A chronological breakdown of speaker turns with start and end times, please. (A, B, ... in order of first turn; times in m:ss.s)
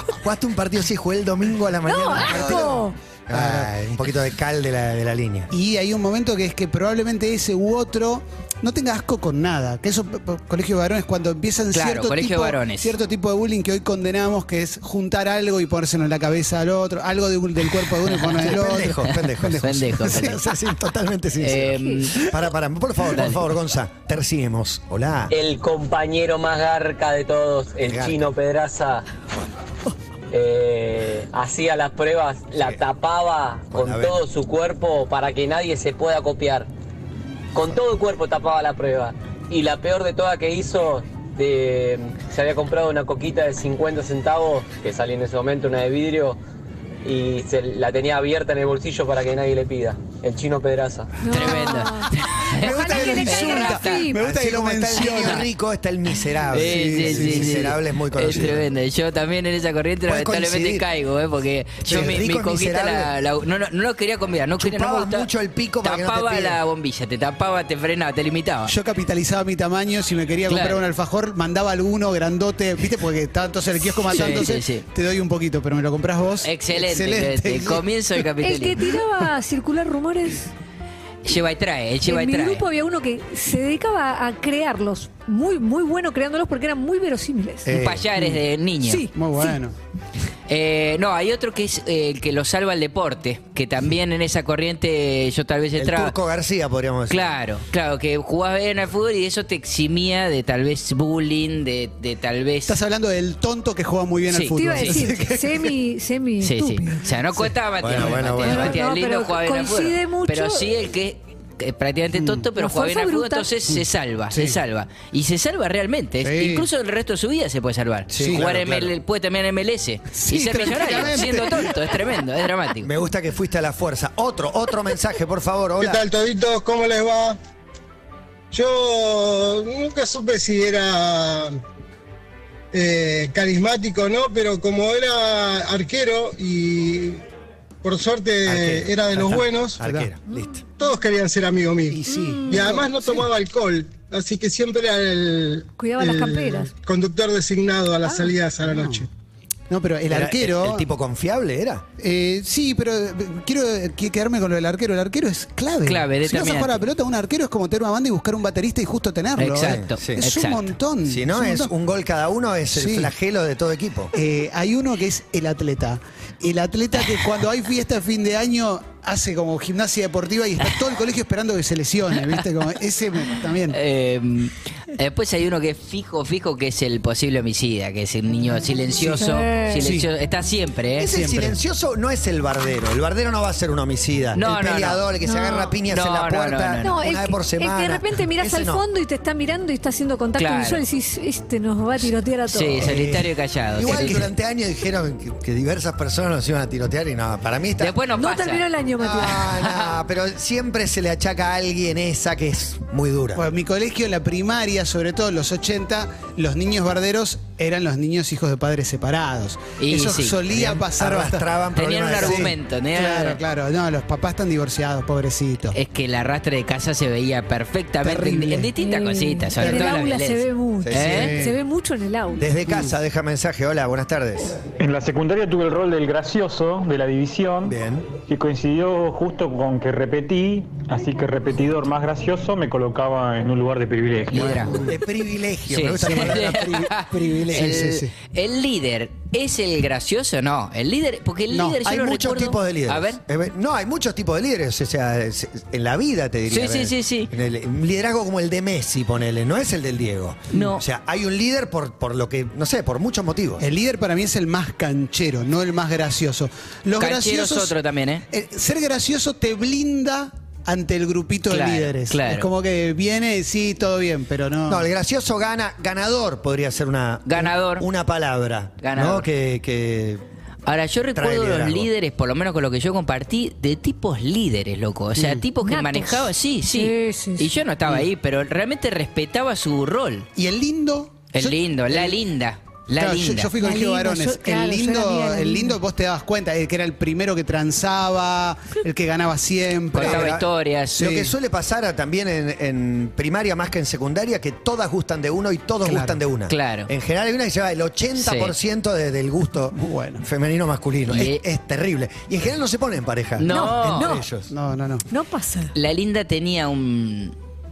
0:00.2-0:05.5 A
0:01.8-0:03.0 B
0:02.3-0:02.7 C
0:03.3-0:03.7 C
0:05.5-0:20.4 C
0:11.7-0:12.9 D
0:18.1-0:18.4 D
0:18.4-0:25.3 A
0:19.1-0:20.4 D
0:21.4-0:22.2 D
0:23.1-0:23.4 D
0:25.3-0:29.0 E
0:27.9-0:28.2 A
0:30.3-0:36.7 E
0:33.7-0:34.2 A
0:37.5-0:46.4 E
0:47.0-0:51.2 E
0:51.2-0:54.2 B
0:51.3-0:54.1 D
0:52.5-0:55.5 C
0:54.2-0:58.7 A
0:56.5-1:05.3 D
0:56.5-0:57.7 C
1:00.1-1:00.8 A
1:01.8-1:03.1 A
1:04.6-1:06.6 A
1:05.8-1:08.7 D
1:08.7-1:17.9 C
1:10.5-1:10.8 D
1:14.1-1:14.8 D
1:16.4-1:18.9 D
1:18.4-1:20.5 B
1:21.2-1:22.6 D
1:22.0-1:27.7 B
1:27.6-1:28.1 A
1:27.7-1:29.0 D
1:28.8-1:29.6 B
1:29.2-1:29.8 C
1:30.5-1:36.2 D
1:35.8-1:37.3 A
1:37.1-1:42.8 D
1:42.7-1:45.7 C
1:44.3-1:45.0 D
1:44.6-1:47.1 B
1:46.4-2:02.9 D
1:47.8-1:48.8 A
1:48.4-1:50.7 B
1:52.1-1:52.5 C
1:52.6-1:53.5 B
1:54.3-1:54.6 C
1:56.2-1:56.7 C
1:58.1-1:58.9 A
2:00.2-2:01.9 C
2:02.8-2:06.0 A
2:05.8-2:07.4 F
2:08.5-2:11.6 F
2:12.7-2:17.2 F
2:17.8-2:19.8 F
2:18.5-2:20.6 A
2:19.8-2:20.1 C
2:20.8-2:29.1 F
2:21.9-2:22.9 C
2:22.1-2:22.9 B
2:25.8-2:26.7 B
2:28.7-2:29.1 C
2:29.7-2:30.9 C
2:30.1-2:31.8 A
2:32.0-2:41.7 C
2:35.9-2:36.8 D
2:39.4-2:40.7 D
2:39.6-2:40.2 A
2:41.1-2:44.1 A
2:42.7-2:43.1 C
2:44.1-2:53.8 C
2:53.7-3:01.1 D
2:59.0-3:00.1 C
2:59.2-2:59.9 B
3:01.0-3:08.8 A
3:01.1-3:01.6 C
3:04.4-3:05.0 D
3:05.2-3:05.7 B
3:05.9-3:07.0 D
3:06.8-3:12.9 B
3:10.4-3:10.8 D
3:12.5-3:14.3 D
3:12.8-3:18.0 A
3:17.8-3:18.7 D
3:18.2-3:19.5 B
3:19.0-3:23.4 A
3:23.4-3:31.5 C
3:29.8-3:30.4 D
3:30.5-3:32.6 A
3:31.8-3:33.4 D
3:32.2-3:35.8 C
3:35.7-3:41.3 D
3:38.0-3:38.7 C
3:38.8-3:42.5 B
3:39.6-3:40.0 C
3:40.8-3:41.4 A
3:41.0-3:41.6 C
3:42.4-3:44.6 A
3:42.7-3:42.9 C
3:44.8-3:47.7 G
3:47.6-3:48.1 A
3:48.3-3:54.6 G
3:54.3-3:54.9 D
3:54.5-3:54.9 C
3:54.8-3:57.9 A
3:55.7-4:03.2 D
3:56.0-3:58.1 C
4:01.5-4:01.8 C
4:01.8-4:13.6 A
4:06.5-4:07.3 D
4:10.5-4:10.8 D
4:13.6-4:17.8 C
4:17.0-4:18.2 D
4:18.3-4:24.9 C
4:21.5-4:22.5 D
4:24.7-4:30.2 A
4:27.3-4:27.9 D
4:28.8-4:29.3 D
4:30.7-4:40.3 D
4:31.2-4:31.9 A
4:35.2-4:35.4 C
4:35.6-4:37.6 B
4:40.4-4:42.2 C
4:41.3-4:43.5 D
4:43.0-4:50.4 C
4:43.6-4:45.8 B
4:49.9-4:51.0 D
4:50.0-5:04.5 A
4:50.9-4:51.4 C
4:55.8-4:56.2 C
4:56.5-4:56.9 D
4:58.2-4:58.5 D
4:59.7-5:00.2 C
5:01.1-5:01.4 D
5:03.4-5:04.2 D
5:03.5-5:04.3 B
5:04.5-5:05.0 C
5:05.1-5:05.7 B
5:05.8-5:07.4 D